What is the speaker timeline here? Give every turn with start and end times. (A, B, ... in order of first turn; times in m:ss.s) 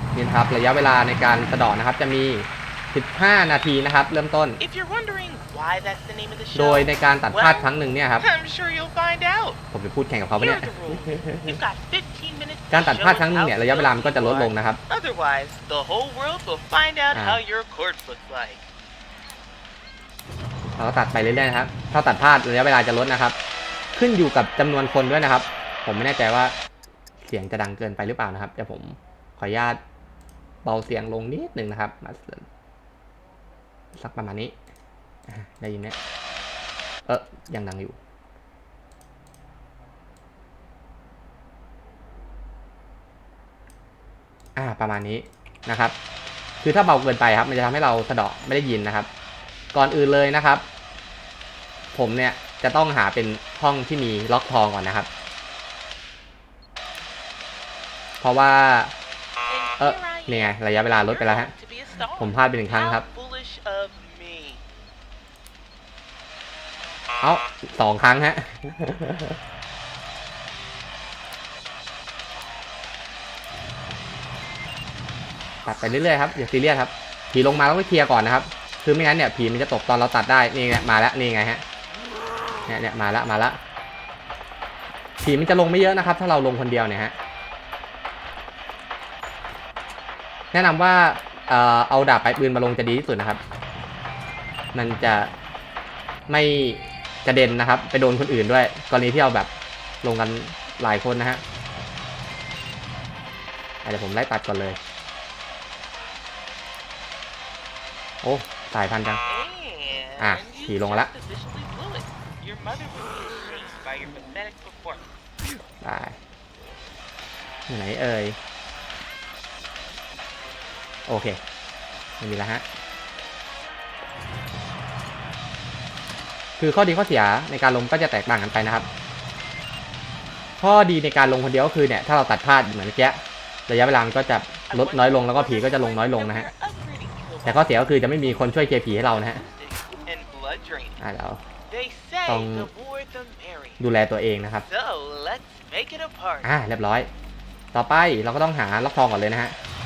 0:00.2-0:04.6 A
0:04.6-0:09.6 B
0:06.5-0:08.3 A
0:09.7-0:11.6 A
0:10.4-0:18.7 B
0:12.7-0:14.8 A
0:17.1-0:17.4 A
0:20.7-0:23.4 A
0:24.0-0:26.6 A
0:27.2-0:29.8 A
0:30.6-0:32.4 A
0:33.9-0:34.6 A
0:35.3-0:36.0 A
0:37.1-0:38.0 A
0:44.6-0:46.0 A
0:46.6-0:49.1 A
0:49.7-0:50.6 A
0:51.9-0:55.1 A
0:58.2-0:58.9 A
0:59.5-1:04.6 B
0:59.8-1:01.5 A
1:02.2-1:03.0 A
1:07.2-1:09.4 A
1:15.6-1:21.6 A
1:22.7-1:23.6 A
1:25.2-1:27.2 A
1:30.5-1:33.4 A
1:34.7-1:35.3 A
1:36.3-1:39.5 A
1:40.0-1:41.4 A
1:43.8-1:44.8 A
1:48.2-1:49.2 A
1:49.3-1:55.1 B
1:50.2-1:51.1 A
1:55.8-1:56.2 A
1:57.7-1:58.4 A
2:01.1-2:01.4 A
2:02.2-2:02.6 A
2:06.6-2:08.9 A
2:10.6-2:16.5 A
2:14.7-2:17.8 B
2:17.4-2:19.5 A
2:19.5-2:21.0 B
2:21.0-2:21.4 A
2:21.7-2:23.8 B
2:22.3-2:22.7 A
2:23.8-2:24.7 A
2:24.7-2:26.5 B
2:26.4-2:27.1 A
2:27.7-2:29.6 A